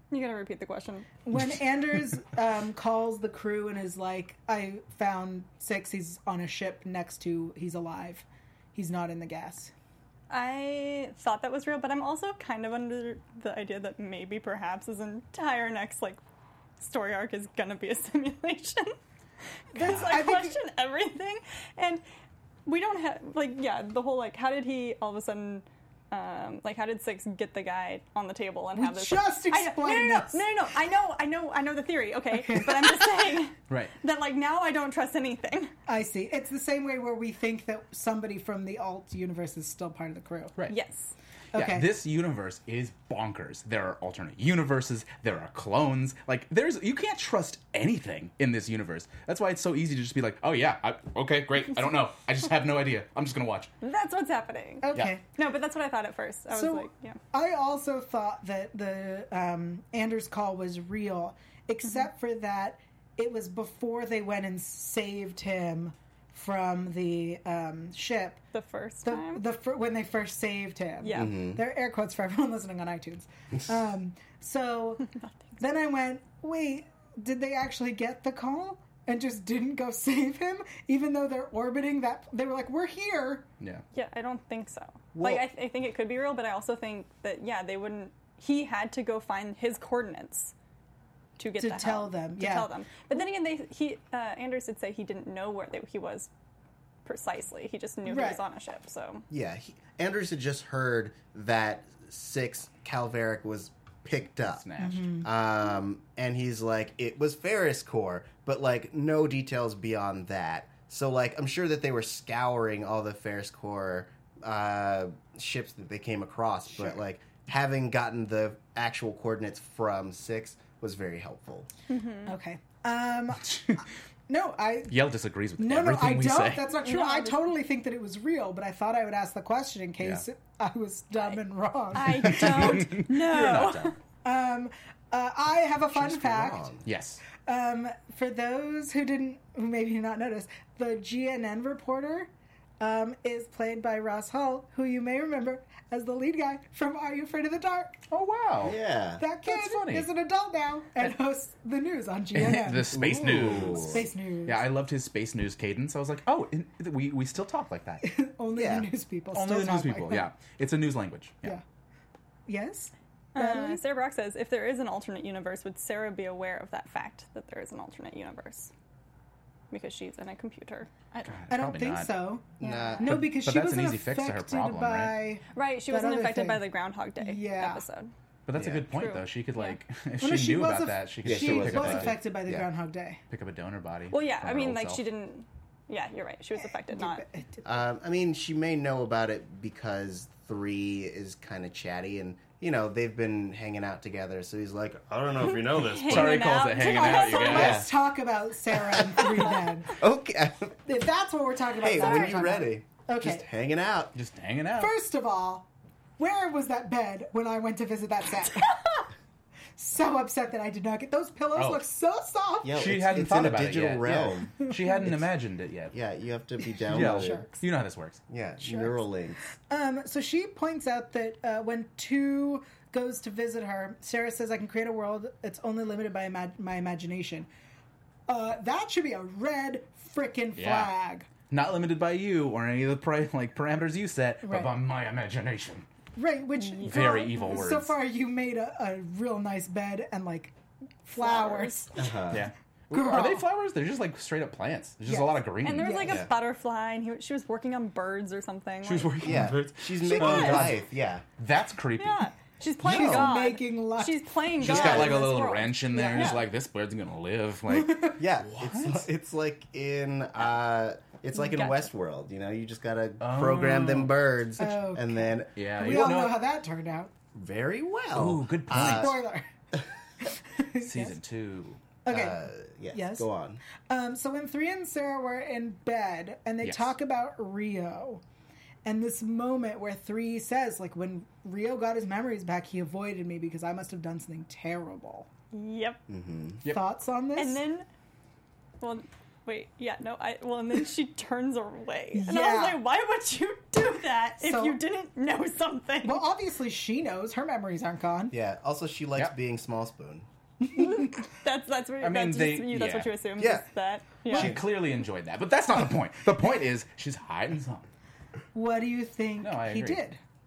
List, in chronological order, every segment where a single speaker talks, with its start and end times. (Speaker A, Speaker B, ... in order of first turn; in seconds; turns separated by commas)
Speaker A: 0.1-1.1, Speaker B: 1.2-9.7, Speaker A: 10.3-16.2, Speaker A: 16.8-18.9, Speaker A: 19.7-22.0, Speaker B: 19.7-20.6, Speaker A: 22.6-35.7, Speaker B: 28.7-30.4, Speaker B: 32.3-33.1, Speaker B: 35.9-40.5, Speaker A: 40.7-41.1, Speaker B: 41.5-41.9, Speaker C: 41.5-53.7, Speaker A: 53.8-57.2, Speaker B: 54.8-55.2, Speaker B: 56.5-68.4, Speaker A: 68.5-69.4, Speaker B: 69.0-75.0, Speaker A: 71.0-71.4, Speaker D: 71.1-71.6, Speaker B: 75.6-83.5, Speaker A: 83.9-90.5, Speaker D: 85.1-85.4, Speaker A: 91.4-96.3, Speaker B: 91.6-92.7, Speaker A: 97.0-99.2, Speaker B: 98.0-98.4, Speaker D: 99.3-104.6, Speaker C: 104.4-105.1, Speaker B: 104.8-105.3, Speaker D: 105.2-121.7, Speaker A: 121.9-122.3, Speaker B: 122.2-123.6, Speaker C: 123.4-123.8, Speaker B: 124.3-125.0, Speaker C: 124.9-126.7, Speaker B: 125.6-132.9, Speaker A: 126.7-127.5, Speaker A: 131.9-133.9, Speaker C: 132.2-133.9, Speaker B: 134.2-136.7, Speaker D: 135.9-136.9, Speaker C: 136.8-137.2, Speaker B: 137.4-148.0, Speaker C: 148.1-148.8, Speaker D: 148.6-149.2, Speaker B: 149.2-153.0, Speaker C: 149.4-150.1, Speaker C: 152.3-158.0, Speaker D: 152.9-154.1, Speaker B: 153.7-154.6, Speaker B: 158.0-160.3, Speaker D: 158.5-158.9, Speaker C: 159.3-161.6, Speaker B: 162.5-163.8, Speaker A: 163.3-168.7, Speaker A: 169.7-171.4, Speaker C: 171.2-172.1, Speaker B: 171.5-176.7, Speaker D: 172.6-173.3, Speaker A: 172.6-172.9, Speaker C: 173.0-175.1, Speaker A: 175.5-178.1, Speaker B: 177.2-177.8, Speaker C: 178.5-182.2, Speaker D: 178.5-178.9, Speaker A: 178.9-179.7, Speaker B: 180.2-183.2, Speaker D: 181.2-182.7, Speaker C: 183.3-185.0, Speaker A: 184.1-187.2, Speaker B: 186.6-187.8, Speaker D: 187.6-196.6, Speaker A: 195.5-197.8, Speaker C: 196.0-197.9, Speaker B: 197.0-200.0, Speaker D: 197.4-197.9, Speaker D: 198.7-200.8, Speaker B: 200.8-203.4, Speaker D: 201.8-204.1, Speaker A: 202.0-202.4, Speaker C: 204.1-204.9, Speaker B: 204.8-208.8, Speaker B: 209.8-212.8, Speaker C: 211.5-211.8, Speaker D: 212.6-215.3, Speaker C: 212.7-215.9, Speaker D: 215.9-217.4, Speaker C: 216.9-218.2, Speaker B: 216.9-217.6, Speaker D: 218.3-219.4, Speaker B: 218.6-219.0, Speaker B: 219.7-227.5, Speaker B: 228.3-231.3, Speaker C: 230.6-230.9, Speaker C: 231.5-235.8, Speaker B: 234.4-234.7, Speaker B: 236.2-240.5, Speaker A: 236.7-237.6, Speaker C: 236.8-237.9, Speaker B: 241.0-242.1, Speaker A: 241.2-241.9, Speaker D: 241.9-242.5, Speaker C: 242.3-246.0, Speaker B: 242.9-243.5, Speaker B: 245.1-246.2, Speaker A: 245.6-249.5, Speaker C: 248.8-250.8, Speaker D: 249.2-251.2, Speaker A: 250.1-250.7, Speaker C: 251.4-252.3, Speaker A: 252.0-256.5, Speaker C: 252.8-253.2, Speaker D: 252.8-253.3, Speaker B: 252.8-256.4, Speaker C: 254.6-259.1, Speaker D: 254.6-255.2, Speaker B: 257.7-258.2, Speaker D: 258.2-265.6, Speaker A: 261.4-261.9, Speaker C: 263.2-264.1, Speaker B: 264.6-267.1, Speaker C: 265.6-266.4, Speaker D: 267.3-269.2, Speaker C: 268.1-269.2, Speaker B: 268.7-269.5, Speaker B: 270.2-271.1, Speaker C: 270.8-271.8, Speaker B: 272.0-273.3, Speaker D: 272.1-273.6, Speaker B: 273.9-278.2, Speaker C: 276.6-276.9, Speaker B: 278.8-285.3, Speaker A: 285.5-286.0, Speaker D: 286.1-286.6, Speaker B: 286.7-287.6, Speaker A: 287.4-287.9, Speaker A: 288.8-296.2, Speaker B: 292.1-292.8, Speaker B: 294.4-294.8, Speaker B: 296.0-298.3, Speaker D: 298.3-300.2, Speaker B: 300.6-301.1, Speaker A: 300.7-304.6, Speaker C: 302.0-303.1, Speaker D: 303.4-303.6, Speaker D: 304.2-304.7, Speaker C: 304.3-307.9, Speaker B: 308.5-310.2, Speaker C: 309.4-310.0